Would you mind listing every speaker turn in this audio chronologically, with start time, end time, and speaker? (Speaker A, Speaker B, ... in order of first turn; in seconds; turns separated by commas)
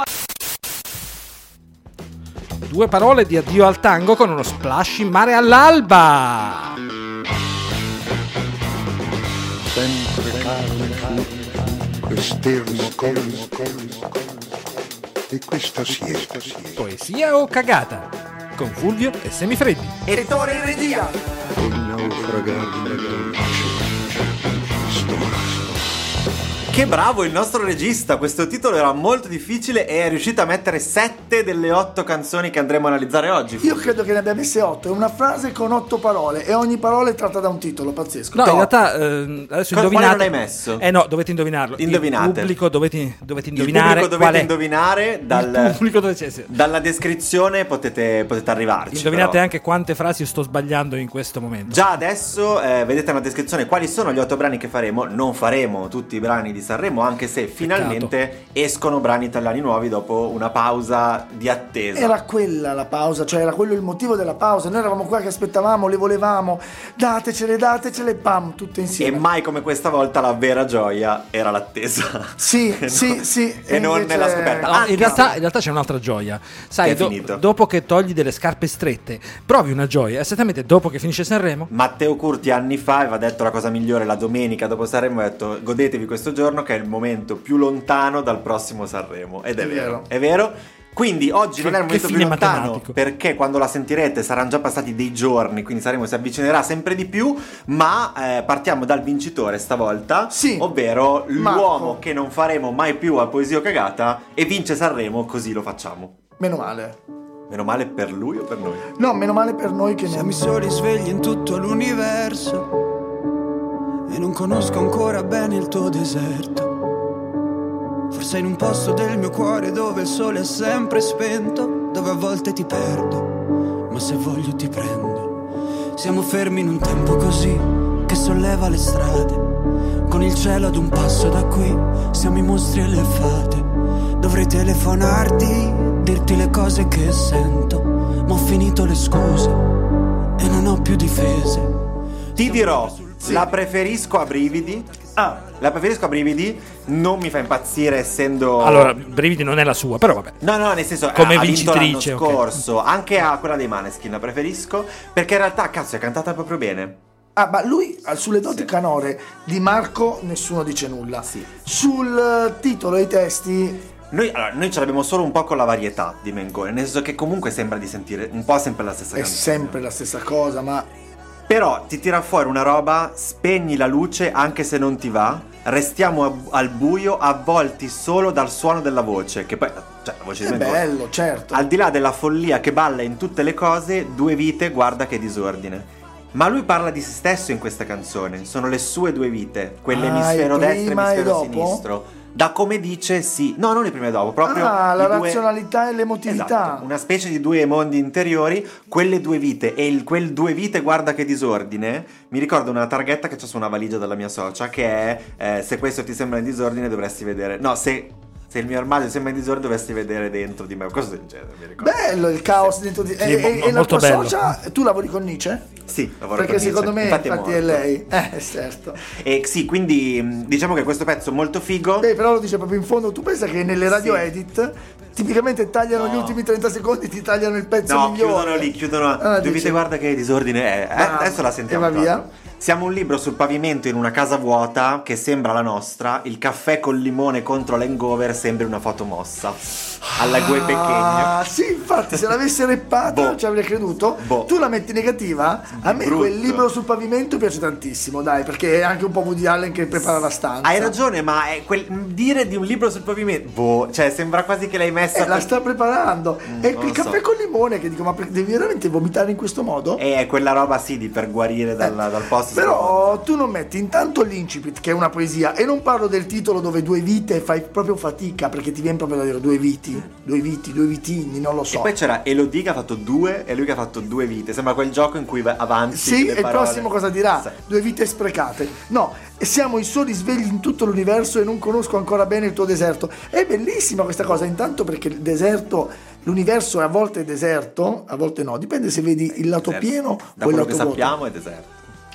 Speaker A: 2.6-6.8, Speaker B: 9.6-14.5, Speaker B: 15.3-16.8, Speaker A: 16.8-20.0, Speaker C: 20.1-21.1, Speaker D: 20.1-21.2, Speaker B: 21.6-26.0, Speaker C: 26.7-33.8, Speaker D: 33.6-38.7, Speaker A: 38.3-44.5, Speaker C: 39.7-40.8, Speaker C: 41.8-42.6, Speaker C: 43.5-45.8, Speaker A: 45.3-46.5, Speaker C: 46.5-49.4, Speaker A: 48.9-51.8, Speaker C: 51.7-62.2, Speaker A: 57.6-58.1, Speaker D: 61.9-69.2, Speaker C: 69.0-75.3, Speaker D: 72.4-75.3, Speaker A: 74.7-81.7, Speaker C: 76.8-77.4, Speaker C: 81.7-106.2, Speaker D: 89.6-90.0, Speaker A: 91.6-92.9, Speaker D: 100.3-100.7, Speaker D: 101.3-102.0, Speaker D: 106.4-107.0, Speaker C: 107.5-108.9, Speaker D: 109.0-110.4, Speaker E: 110.1-112.7, Speaker E: 114.1-116.7, Speaker E: 118.1-123.3, Speaker E: 123.9-125.3, Speaker E: 126.0-129.4, Speaker E: 130.1-133.7, Speaker E: 134.2-139.7, Speaker E: 140.4-141.8, Speaker E: 142.3-143.4, Speaker C: 142.3-144.9, Speaker D: 143.2-143.5, Speaker D: 145.2-145.4, Speaker C: 145.5-148.9, Speaker A: 148.6-150.4, Speaker C: 150.4-157.0, Speaker A: 151.1-152.4, Speaker D: 157.3-163.8, Speaker C: 164.1-169.8, Speaker D: 169.2-170.9, Speaker C: 171.5-180.8, Speaker D: 180.4-181.7, Speaker C: 181.5-195.4, Speaker D: 189.9-191.8, Speaker D: 194.4-196.9, Speaker C: 196.2-212.7, Speaker D: 211.8-215.6, Speaker A: 213.2-214.5, Speaker C: 215.8-217.8, Speaker D: 216.3-219.0, Speaker C: 219.0-222.1, Speaker D: 222.0-229.8, Speaker C: 223.9-224.3, Speaker C: 225.9-226.4, Speaker C: 227.8-239.6, Speaker D: 230.9-232.2, Speaker D: 240.1-250.9, Speaker C: 240.2-241.4, Speaker C: 243.0-243.4, Speaker C: 244.2-244.5, Speaker C: 245.7-246.6, Speaker C: 250.6-255.5, Speaker D: 255.1-260.0, Speaker C: 256.4-257.2, Speaker C: 260.0-263.2, Speaker D: 262.5-271.9, Speaker C: 271.7-277.5, Speaker D: 275.9-291.2, Speaker C: 289.3-291.8